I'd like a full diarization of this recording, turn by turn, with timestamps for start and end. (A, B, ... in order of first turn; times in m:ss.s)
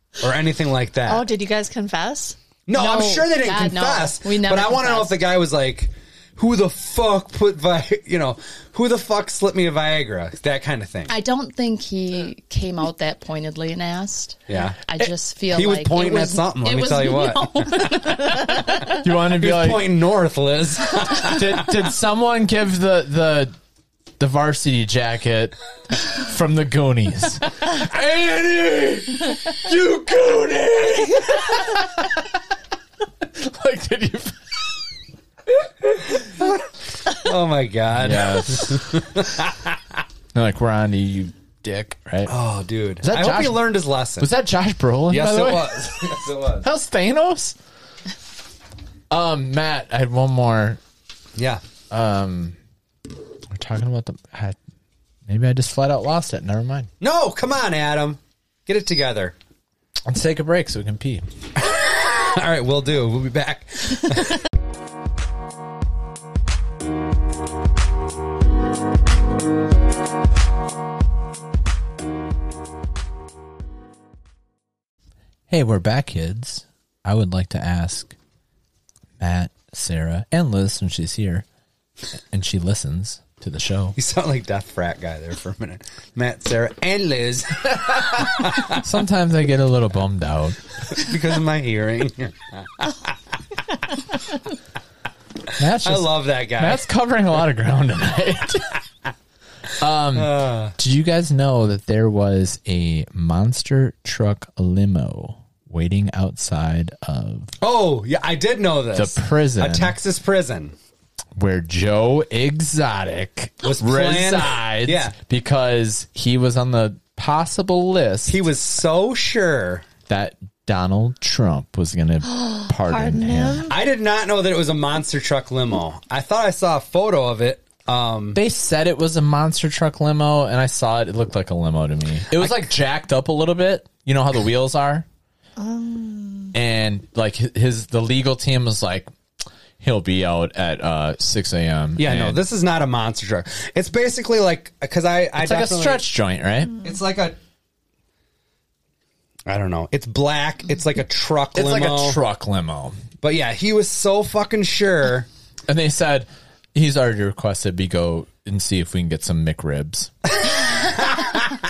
0:00.2-0:01.2 A
0:01.0-0:02.4 B
0:02.7-0:11.1 A
0:02.7-0:05.1 C
0:11.1-0:19.0 C
0:14.5-0:14.8 A
0:15.5-0:18.5 A
0:19.0-0:19.9 D
0:19.4-0:21.7 A
0:21.1-0:23.5 D
0:24.2-0:32.1 D
0:33.2-0:34.5 D
0:36.3-0:39.8 A
0:38.0-0:39.0 D
0:40.3-0:42.3 D
0:42.3-0:44.3 A
0:43.0-0:46.0 D
0:45.1-0:46.7 A
0:46.6-0:47.6 D
0:49.1-0:50.8 D
0:51.4-0:51.6 A
0:51.9-0:52.6 D
0:53.5-0:54.6 D
0:55.3-0:56.9 D
0:57.0-0:59.3 A
1:00.0-1:01.2 D
1:01.6-1:04.4 A
1:15.5-1:18.1 D
1:19.2-1:21.4 D
1:22.3-1:24.0 D
1:24.0-1:28.8 A
1:28.2-1:30.8 D
1:30.9-1:33.1 A
1:35.6-1:38.8 D
1:35.8-1:36.8 A
1:39.8-1:47.5 D
1:40.1-1:40.7 A
1:47.6-1:50.7 A
1:48.9-1:50.0 D
1:51.4-1:58.4 D
1:53.6-1:55.1 A
1:58.3-1:59.9 A
2:00.1-2:03.7 D
2:02.3-2:03.7 B
2:03.7-2:08.4 A
2:08.3-2:15.0 D
2:15.6-2:16.5 B
2:16.5-2:19.1 D
2:19.8-2:22.4 D
2:22.0-2:26.0 A
2:25.4-2:26.8 D
2:26.8-2:27.4 A
2:29.5-2:32.2 A
2:31.5-2:33.0 D
2:33.2-2:35.3 A
2:35.7-2:40.1 D